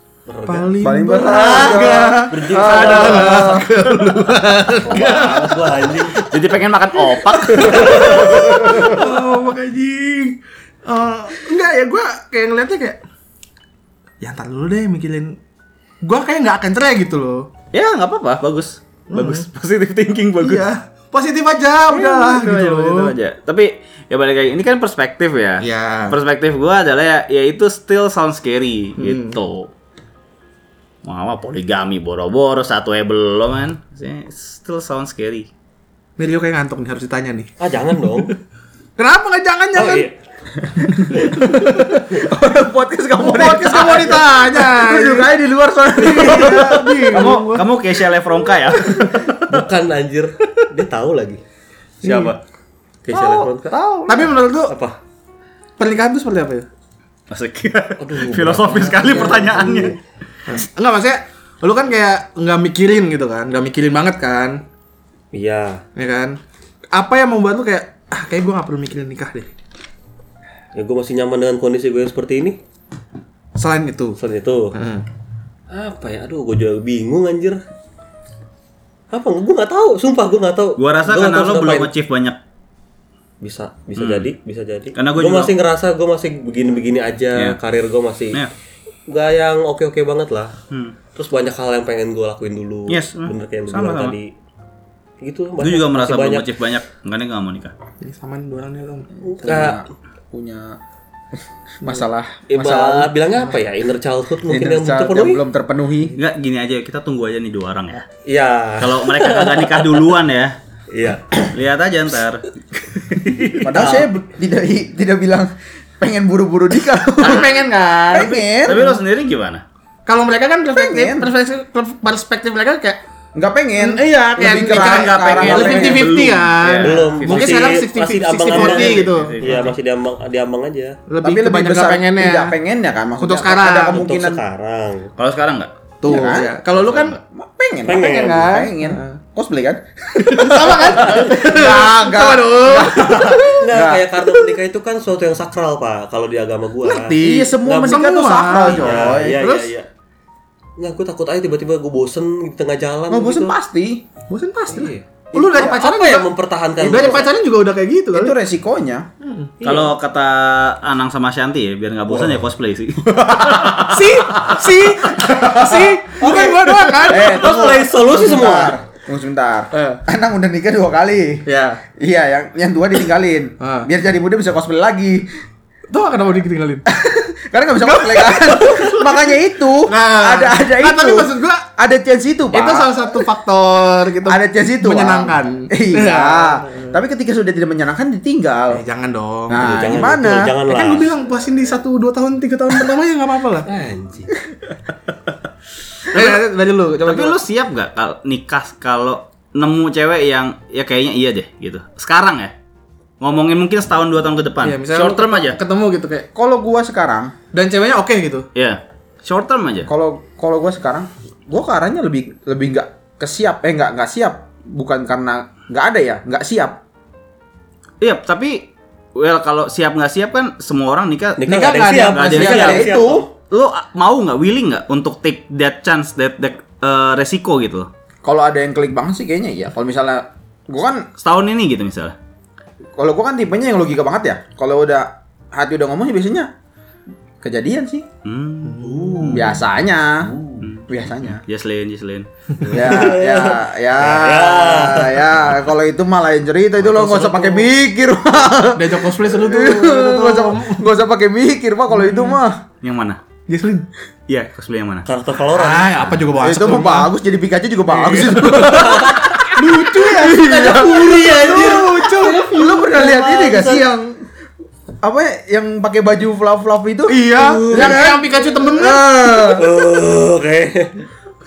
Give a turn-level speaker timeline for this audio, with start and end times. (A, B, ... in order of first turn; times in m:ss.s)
0:00.3-0:00.8 A
0:00.4-0:06.2 B
0:00.8-0:03.7 C
0:01.6-0:03.6 A
0:04.8-0:06.3 A
0:06.2-0:09.0 D
0:07.2-0:13.0 B
0:07.6-0:08.4 A
0:08.1-0:09.0 C
0:14.2-0:15.4 B
0:16.0-0:17.5 B
0:17.7-0:20.6 D
0:19.1-0:19.5 B
0:20.4-0:23.1 B
0:21.9-0:29.7 D
0:25.6-0:26.2 B
0:29.0-0:29.4 B
0:31.0-0:35.5 D
0:36.2-0:37.5 B
0:37.6-0:38.4 A
0:39.0-0:40.1 B
0:39.8-0:40.2 A
0:40.9-0:42.0 B
0:41.0-0:47.4 C
0:43.2-0:45.3 B
0:46.0-0:47.7 B
0:46.1-0:49.1 D
0:48.8-0:49.3 B
0:49.3-0:51.4 A
0:52.0-0:52.4 B
0:52.0-0:52.4 D
0:53.1-0:53.7 A
0:53.1-0:54.2 D
0:54.1-0:54.7 B
0:54.3-0:55.0 A
0:55.8-0:56.7 B
0:57.3-1:00.0 D
0:58.0-1:00.0 A
1:00.5-1:04.6 B
1:05.3-1:05.8 A
1:06.0-1:06.4 B
1:06.9-1:09.5 B
1:10.7-1:12.6 A
1:13.6-1:14.2 B
1:14.2-1:14.8 A
1:14.7-1:15.0 B
1:15.7-1:17.6 A
1:19.1-1:21.9 A
1:20.8-1:22.4 D
1:23.4-1:28.4 A
1:24.0-1:24.3 D
1:25.0-1:25.6 D
1:29.1-1:30.5 A
1:31.1-1:34.3 A
1:32.9-1:34.2 D
1:35.2-1:36.5 A
1:35.6-1:37.7 D
1:38.0-1:39.1 B
1:39.3-1:40.8 C
1:39.3-1:39.9 A
1:41.8-1:43.1 C
1:42.5-1:45.4 A
1:44.5-1:46.2 C
1:46.2-1:48.1 D
1:48.3-1:50.1 A
1:48.8-1:50.6 D
1:50.9-1:51.5 A
1:51.5-1:54.0 D
1:53.6-1:57.6 C
1:53.7-1:54.0 A
1:57.2-1:58.9 B
1:58.1-1:58.9 C
1:58.7-1:59.6 D
2:00.1-2:03.0 B
2:00.7-2:01.3 C
2:03.4-2:06.1 C
2:03.8-2:09.7 B
2:04.7-2:07.7 D
2:06.8-2:11.0 A
2:08.5-2:09.7 D
2:11.1-2:12.6 B
2:11.2-2:14.4 C
2:13.2-2:14.0 B
2:13.8-2:15.1 A
2:15.2-2:15.7 D
2:16.0-2:17.2 B
2:16.0-2:16.6 C
2:16.7-2:17.2 D
2:17.2-2:24.1 C
2:17.8-2:18.5 A
2:17.9-2:19.2 B
2:20.2-2:23.7 B
2:23.5-2:29.9 A
2:26.8-2:29.7 B
2:27.1-2:29.5 C
2:30.8-2:33.5 A
2:33.1-2:34.0 C
2:34.3-2:38.4 B
2:34.7-2:37.3 A
2:35.3-2:35.8 C
2:38.1-2:39.1 C
2:39.2-2:39.5 B
2:39.6-2:44.1 D
2:42.1-2:42.4 A
2:43.4-2:43.8 C
2:43.7-2:47.5 B
2:45.2-2:51.4 C
2:46.2-2:48.8 A
2:49.7-2:50.0 B
2:51.5-2:51.8 B
2:52.0-2:55.3 C
2:53.6-2:53.9 B
2:55.9-2:56.9 B
2:56.9-3:03.2 C
2:57.8-2:59.3 B
2:59.9-3:01.6 B
3:02.5-3:07.0 B
3:04.2-3:08.8 C
3:08.7-3:10.0 B
3:09.5-3:10.6 C
3:09.6-3:11.1 A
3:10.6-3:13.7 B
3:13.7-3:14.3 A
3:16.1-3:17.4 B
3:16.1-3:16.4 D
3:17.0-3:22.5 D
3:23.2-3:25.6 D
3:24.6-3:26.3 B
3:26.4-3:27.3 C
3:27.5-3:28.5 B
3:28.6-3:29.9 D
3:29.9-3:36.8 C
3:38.0-3:42.9 D
3:41.4-3:43.3 A
3:41.4-3:42.8 B
3:42.4-3:43.3 C
3:43.5-3:47.9 D
3:48.2-3:51.1 C
3:51.2-3:52.2 D
3:53.0-3:56.5 C
3:57.4-3:58.1 C
3:58.2-3:59.5 D
3:58.6-3:59.4 B
3:58.8-3:59.6 A
3:59.3-4:00.3 C
4:00.2-4:00.6 A
4:00.6-4:02.3 D
4:00.9-4:01.4 C
4:02.6-4:05.4 A
4:02.7-4:12.6 C
4:06.8-4:07.7 A
4:08.7-4:10.8 B
4:11.9-4:12.4 B
4:12.8-4:13.2 D
4:13.5-4:13.9 B
4:14.3-4:15.1 D
4:15.0-4:16.3 A
4:15.5-4:17.1 B
4:16.4-4:21.7 C
4:17.9-4:22.6 B
4:18.6-4:23.8 A
4:22.4-4:24.2 C
4:25.0-4:29.7 C
4:27.1-4:29.1 B
4:27.4-4:28.1 A
4:29.3-4:31.1 A